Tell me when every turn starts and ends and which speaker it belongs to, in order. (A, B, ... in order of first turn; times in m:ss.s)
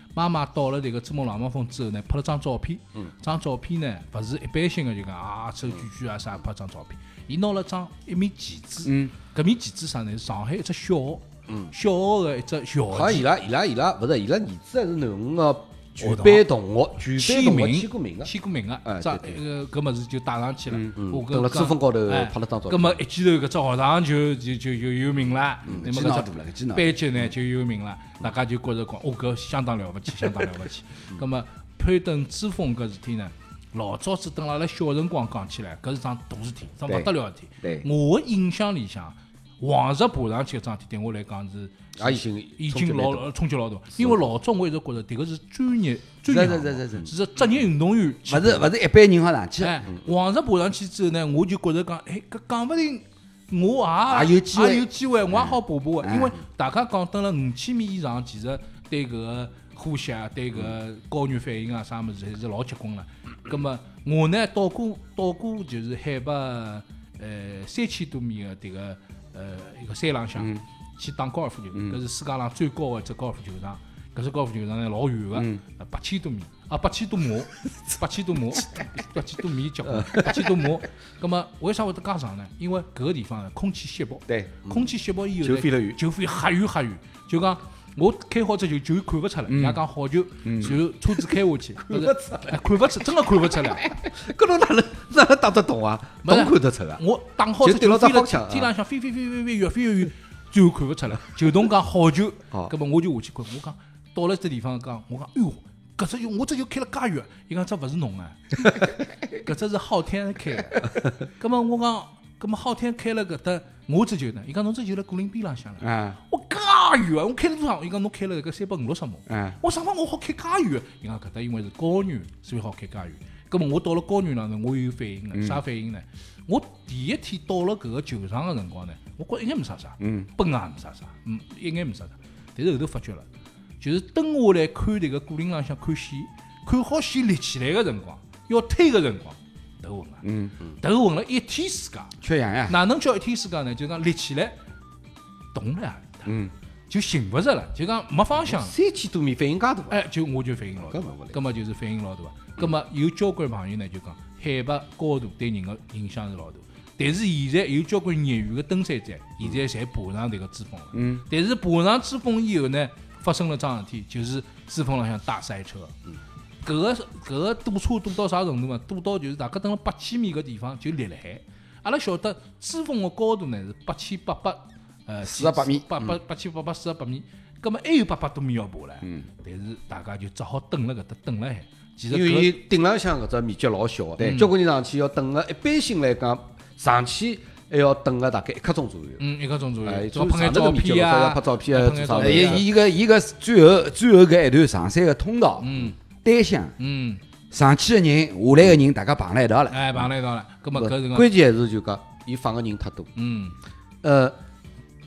0:00.1-0:13.2 A
0:08.8-0:09.1 B
0:11.5-0:11.7 C
0:12.9-0:18.3 C
0:16.0-0:16.4 A
0:17.2-0:48.7 A
0:18.8-0:19.4 C
0:21.0-0:23.0 C
0:25.7-0:25.9 C
0:25.7-0:27.0 B
0:42.0-0:43.3 C
0:43.9-0:44.2 C
0:46.3-0:47.1 B
0:48.3-0:49.8 B
0:49.6-1:33.9 A
0:54.1-0:54.9 B
0:56.0-0:56.3 B
1:19.8-1:20.6 C
1:24.3-1:24.5 B
1:24.6-1:26.0 C
1:29.5-1:29.8 B
1:30.4-1:30.8 B
1:31.8-1:37.0 C
1:36.2-2:13.2 A
1:37.6-1:38.7 C
1:55.8-1:56.2 B
1:59.3-1:59.6 B
2:05.3-2:05.6 B
2:10.0-2:10.3 B
2:13.8-2:20.2 A
2:20.2-2:20.5 B
2:20.8-2:22.1 A
2:22.2-2:22.7 B
2:22.7-2:24.6 A
2:25.5-2:26.3 A
2:26.2-2:26.5 B
2:26.9-2:28.7 A
2:28.4-2:30.0 C
2:29.9-2:45.9 A
2:30.8-2:31.4 C
2:40.9-2:41.2 B
2:46.6-3:02.6 A
2:55.2-2:55.8 B
3:02.1-3:09.2 C
3:04.2-3:04.5 A
3:09.2-3:12.6 A
3:09.8-3:12.6 C
3:12.2-3:16.7 B
3:15.6-3:15.9 A
3:16.8-3:17.2 A
3:17.5-3:20.0 B
3:19.7-3:21.3 A
3:20.8-3:23.1 C
3:23.2-3:23.6 A
3:24.0-3:24.3 C